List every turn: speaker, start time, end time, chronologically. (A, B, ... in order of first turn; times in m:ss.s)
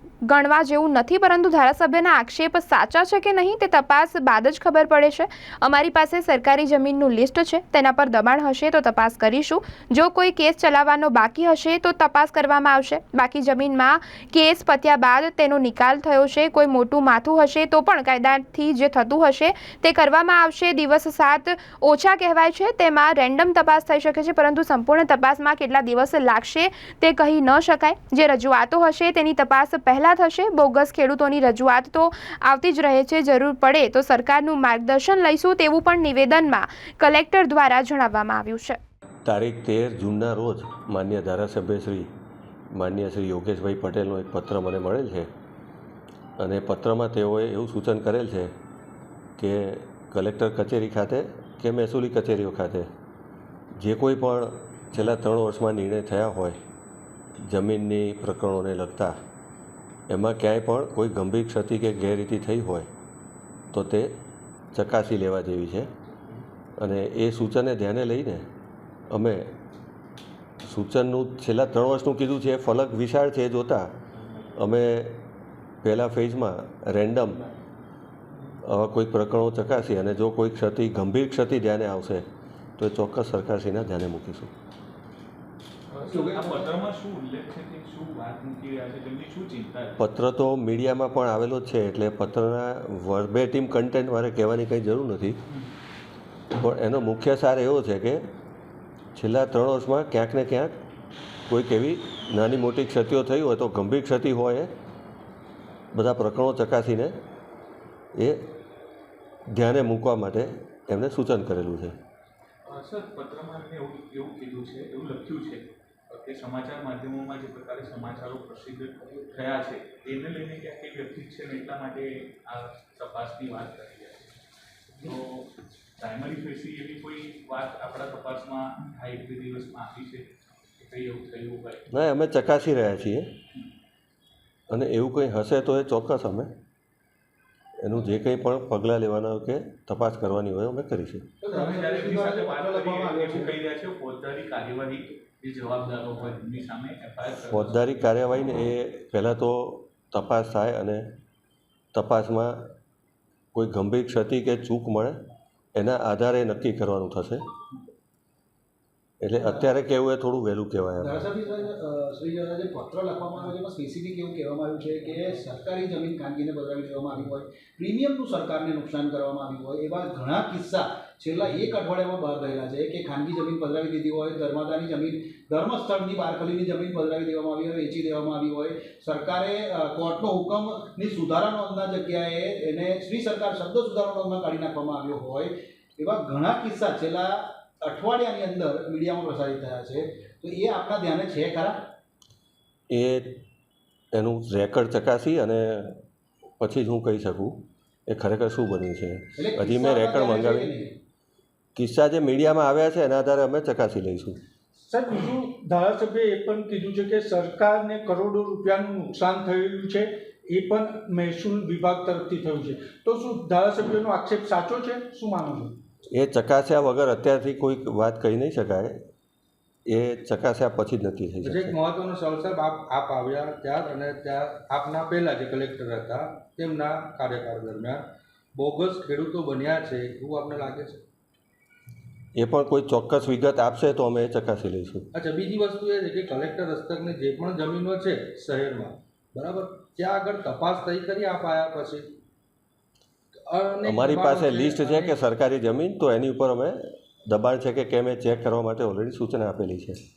0:00.2-0:38.8 A
0:39.2-0:42.1 B
0:42.7-0:45.3 B
0:46.4-0:48.5 B
0:49.4-0:52.9 B
0:53.8-0:56.6 B
0:57.4-0:59.2 B
1:00.1-1:02.9 B
1:03.7-1:04.2 B
1:04.7-1:05.9 B
1:06.8-1:08.5 B
1:09.1-1:09.5 B
1:10.6-1:13.9 B
1:14.6-1:15.2 B
1:15.8-1:17.4 B
1:18.6-1:22.3 B
1:22.8-1:24.5 B
1:25.9-1:30.0 C
1:26.1-1:26.7 D
1:30.0-1:35.4 B
1:36.6-1:38.3 B
1:39.2-1:40.8 B
1:41.5-1:44.7 B
1:45.9-1:47.2 B
1:48.2-1:48.5 B
1:49.5-1:52.0 B
1:52.6-2:04.3 C
2:05.0-2:10.3 C
2:10.8-2:11.9 C
2:11.9-2:13.3 B
2:14.7-2:16.5 B
2:17.8-2:21.3 B
2:21.4-2:23.5 D
2:21.5-2:27.9 C
2:27.5-2:31.1 B
2:31.9-2:32.7 B
2:33.5-2:35.2 B
2:35.8-2:37.5 B
2:39.2-2:41.2 B
2:39.4-2:39.7 D
2:41.0-3:11.8 D
3:12.9-3:13.4 B
3:14.1-3:16.0 B
3:16.6-3:20.7 B
3:19.4-3:20.9 D
3:21.8-3:24.4 B
3:24.8-3:35.8 E
3:36.1-3:39.0 B
3:39.9-3:41.8 B
3:41.4-3:48.0 F
3:48.6-3:51.0 F
3:52.4-3:55.1 B
3:55.1-4:02.1 F
4:03.4-4:05.1 F
4:03.8-4:10.0 B